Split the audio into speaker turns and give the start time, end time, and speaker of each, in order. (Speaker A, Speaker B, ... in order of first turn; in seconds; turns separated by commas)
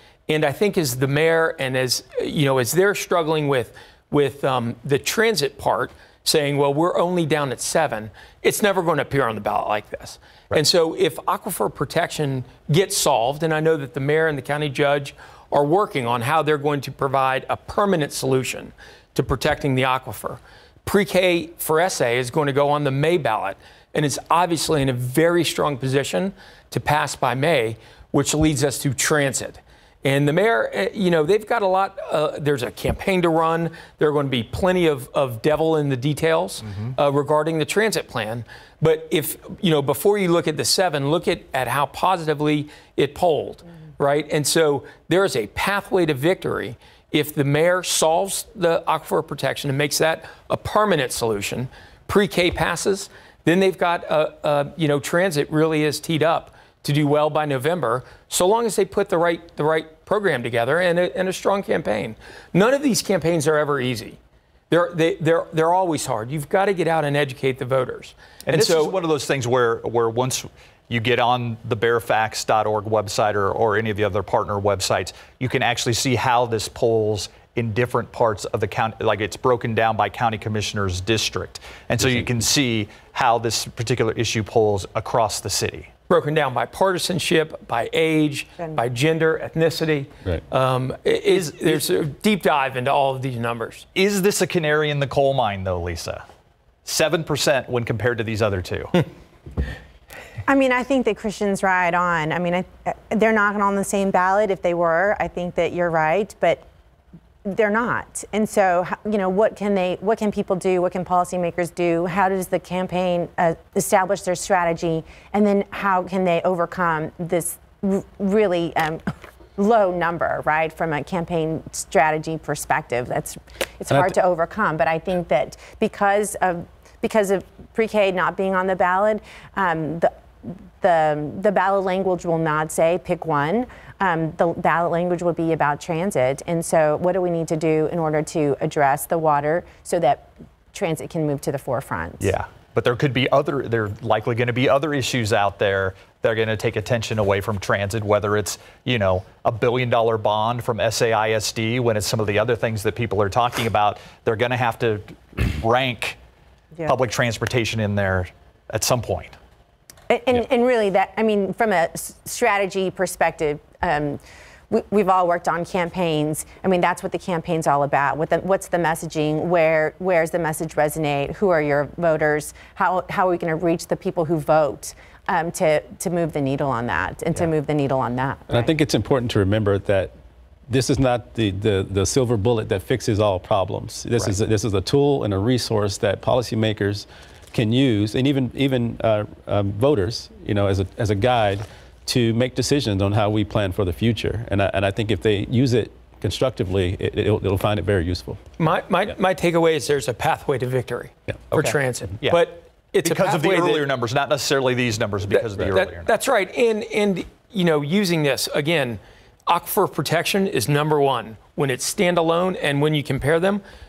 Speaker A: 0.3-64.2, Speaker B: 36.6-36.9, Speaker A: 64.7-69.0, Speaker B: 68.5-85.9, Speaker C: 82.0-82.3, Speaker A: 86.1-93.9, Speaker B: 91.3-91.8, Speaker B: 93.9-96.2, Speaker B: 96.8-99.0, Speaker D: 100.5-106.6, Speaker D: 107.4-119.0, Speaker D: 119.6-142.3, Speaker B: 142.2-156.2, Speaker B: 156.8-159.4, Speaker D: 160.1-178.7, Speaker C: 178.5-180.1, Speaker C: 180.7-198.4, Speaker A: 198.6-203.9, Speaker B: 201.5-202.5, Speaker B: 203.0-206.1, Speaker A: 205.3-213.6